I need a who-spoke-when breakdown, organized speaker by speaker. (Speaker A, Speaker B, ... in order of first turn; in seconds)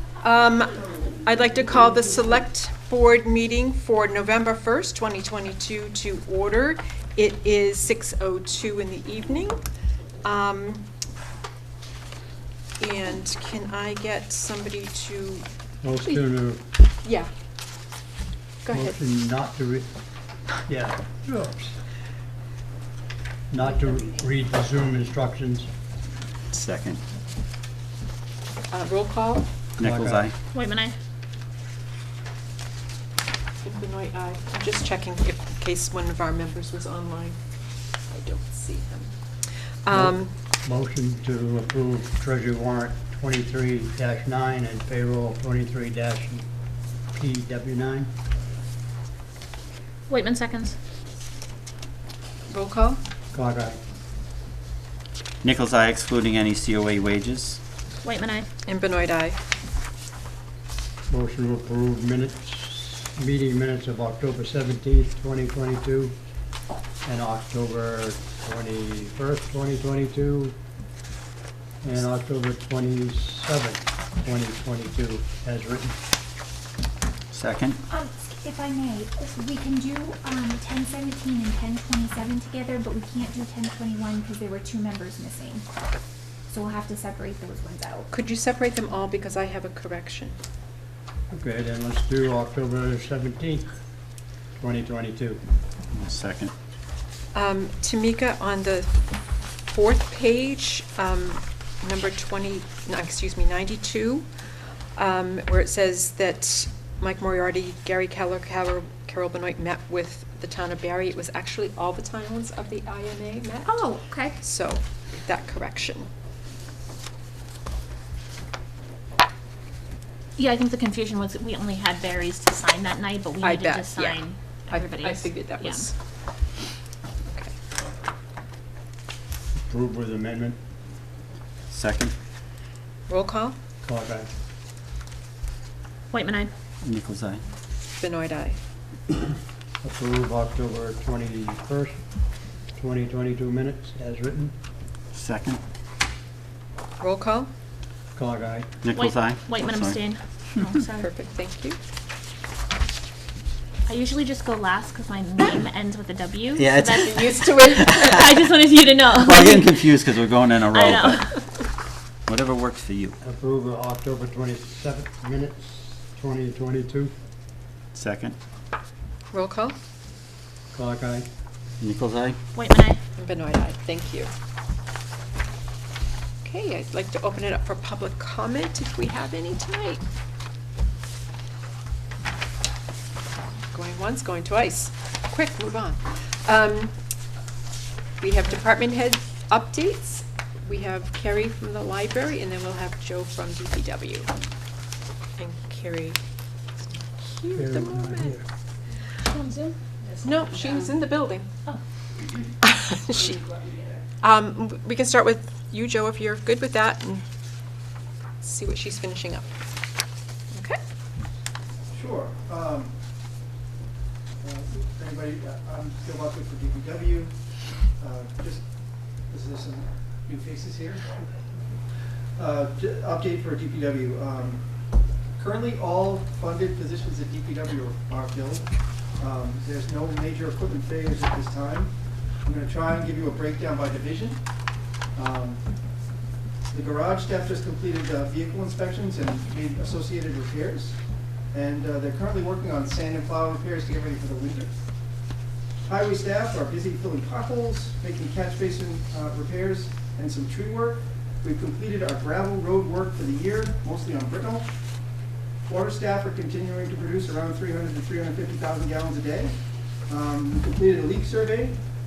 Speaker A: 0.2-9.6, 10.2-10.8, 12.8-15.4, 16.0-16.3, 17.0-17.3, 18.6-19.0, 28.7-29.5, 33.6-37.4, 38.1-39.1, 39.8-40.3, 52.5-53.0, 58.6-59.4, 88.1-90.3, 97.3-99.0, 99.7-104.3, 105.0-113.8, 114.4-116.1, 123.4-125.9, 127.3-127.5, 133.1-133.6, 138.0-138.6, 147.0-147.5, 150.9-151.8, 157.2-157.8, 169.3-169.8, 173.2-174.3, 176.4-180.0, 183.7-186.9, 188.2-194.3, 195.4-196.2, 197.2-198.4, 200.2-201.5, 202.6-203.4, 204.2-207.2, 208.4-209.5, 210.5-210.8
Speaker B: 15.8-16.6, 18.7-19.9, 20.6-21.8, 23.5-25.7, 29.8-30.3, 39.9-46.5, 47.1-48.1, 53.3-53.8, 61.1-66.1, 67.0-70.5, 71.8-75.9, 91.3-93.7, 94.6-95.4, 129.6-130.6, 133.8-134.3, 139.8-142.0, 142.8-144.5, 148.1-148.7, 163.2-167.1, 170.7-171.3, 197.5-198.4
Speaker C: 26.5-27.0, 29.8-30.3, 55.4-57.6, 77.3-77.8, 95.9-96.5, 131.7-132.1, 136.8-137.4, 145.1-145.6, 148.8-150.0, 156.6-158.2, 159.1-161.3, 162.3-163.2, 167.9-168.3, 171.8-172.4
Speaker D: 30.5-30.9, 50.1-50.7, 58.0-58.5, 120.4-125.8, 136.1-136.5, 148.9-151.1, 153.9-160.0, 160.6-161.4, 172.5-173.0, 199.2-199.7
Speaker E: 77.9-85.6, 86.5-88.1, 113.6-114.4
Speaker F: 211.9-212.9, 214.4-217.3, 218.0-218.6, 219.3-221.2, 222.3-224.6, 225.3-231.9, 232.4-234.4, 235.1-235.6, 236.7-241.0, 241.5-244.7, 245.8-254.7, 255.7-259.6, 260.1-261.8